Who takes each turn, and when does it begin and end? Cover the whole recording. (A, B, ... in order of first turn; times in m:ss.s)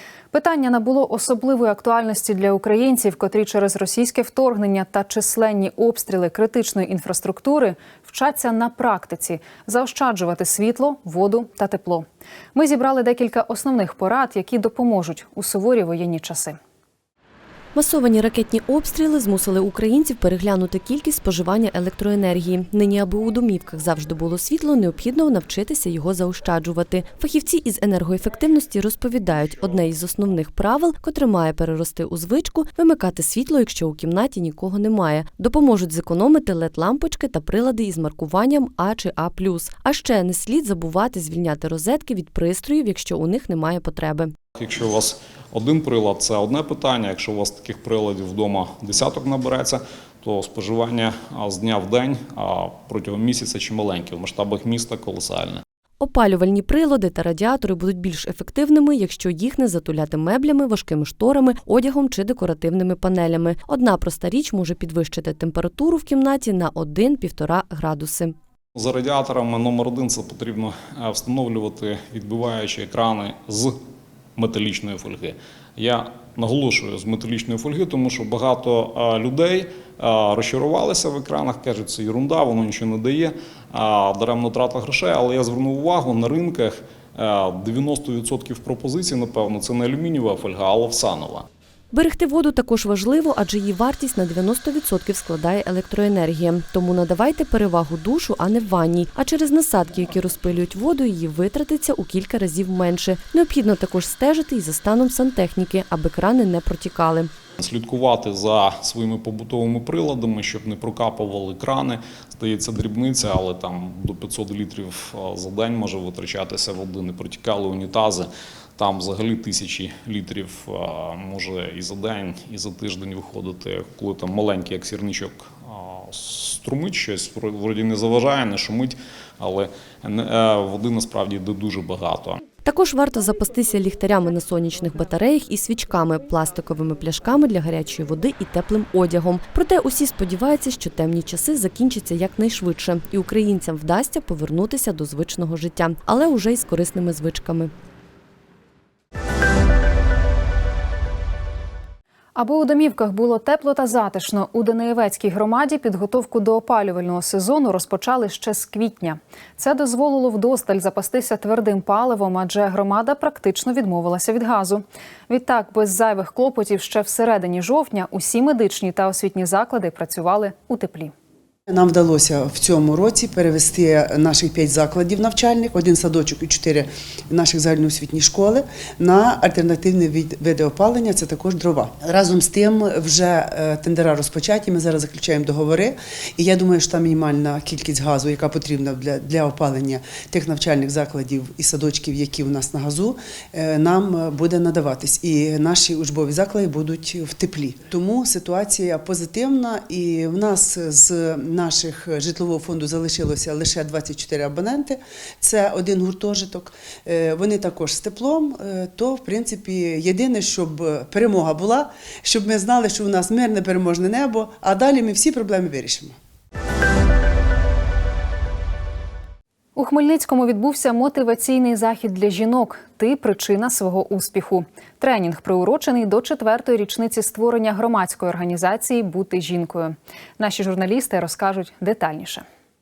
0:00.3-0:16.6 A
0:17.8-0:44.3 B
0:44.6-0:55.6 C
0:56.0-1:08.4 B
1:08.8-1:13.8 C
1:14.4-1:31.5 C
1:31.9-1:47.3 B
1:47.6-2:12.4 C
2:12.6-2:27.7 B
2:32.4-2:51.1 A
2:51.7-3:36.2 D
3:39.8-3:52.4 A